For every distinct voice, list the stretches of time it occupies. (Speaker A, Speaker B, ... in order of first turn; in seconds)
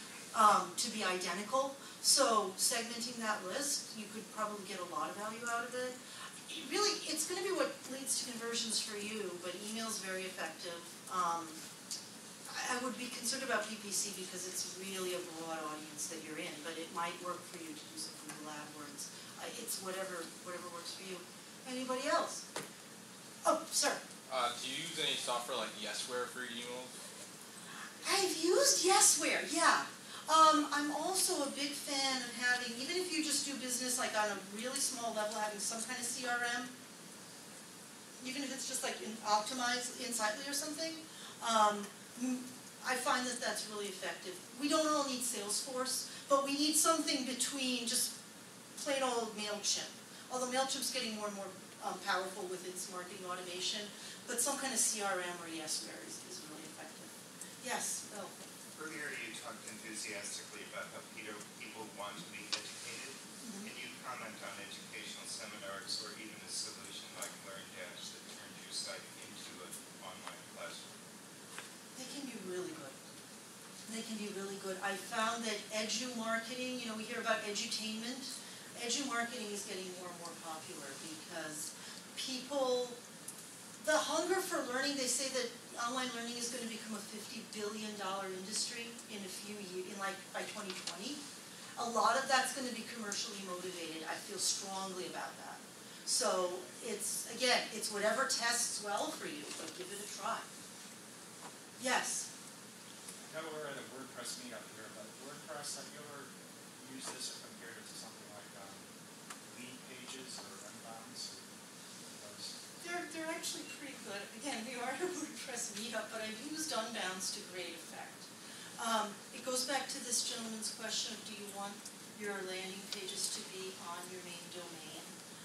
Speaker A: 0.3-11.6, 12.5-22.4, 23.4-24.0, 28.0-36.7, 38.2-48.1, 48.8-58.5, 63.4-63.7, 72.0-73.0, 73.9-83.0, 83.8-91.2, 91.8-100.5, 101.8-102.3, 112.8-125.1
Speaker B: 24.3-26.9
Speaker C: 58.8-71.0
Speaker D: 96.2-96.8, 103.3-108.8, 109.5-111.4, 112.1-112.6